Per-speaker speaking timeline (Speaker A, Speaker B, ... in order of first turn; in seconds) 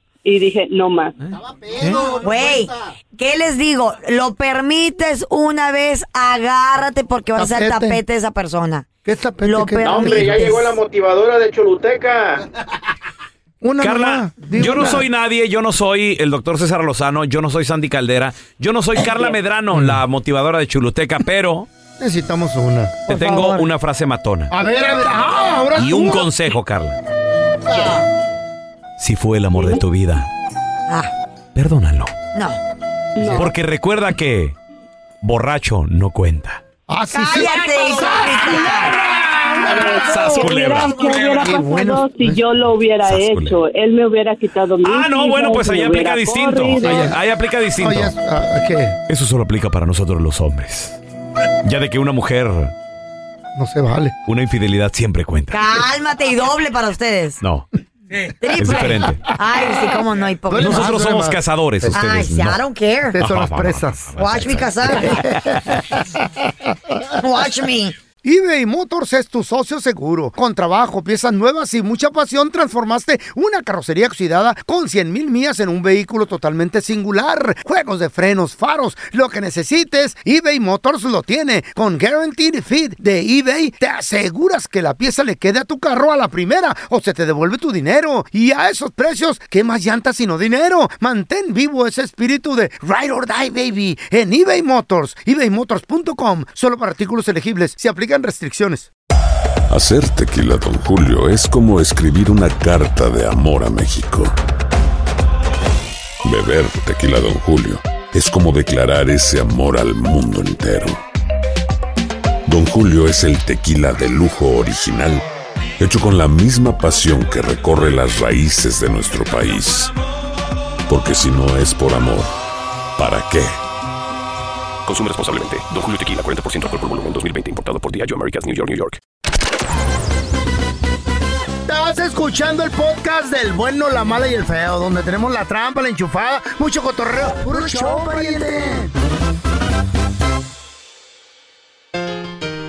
Speaker A: 0.2-1.2, 33.2-33.5, 39.6-47.1
Speaker B: 1.4-2.7, 7.4-8.0, 9.0-10.3, 13.6-15.0, 19.7-20.0, 22.0-23.1, 24.5-26.3, 27.7-27.9, 36.9-40.2, 41.4-42.4, 47.8-49.0, 53.5-54.1, 60.5-62.0, 63.1-66.2, 68.2-98.9, 131.7-138.9
Speaker C: 2.2-8.9, 9.4-10.8, 23.1-23.7, 32.3-32.6, 37.1-39.0, 40.8-41.3, 55.5-57.4, 58.4-60.9, 61.9-63.2, 64.2-65.2, 67.2-68.0, 137.5-138.8
Speaker D: 9.8-12.4
Speaker E: 13.8-21.7, 23.1-24.5, 25.8-27.0, 29.0-30.3, 31.5-32.1, 33.4-34.5, 35.2-36.6, 39.9-41.4, 43.0-43.6, 44.8-48.1, 49.1-51.0, 51.6-52.7, 54.2-55.6, 57.4-57.7, 58.5-59.2, 60.6-62.6, 63.2-65.6
Speaker F: 99.7-104.3, 106.2-111.0, 112.5-115.2, 115.8-119.9, 120.9-122.3, 123.0-123.5
Speaker G: 124.9-129.0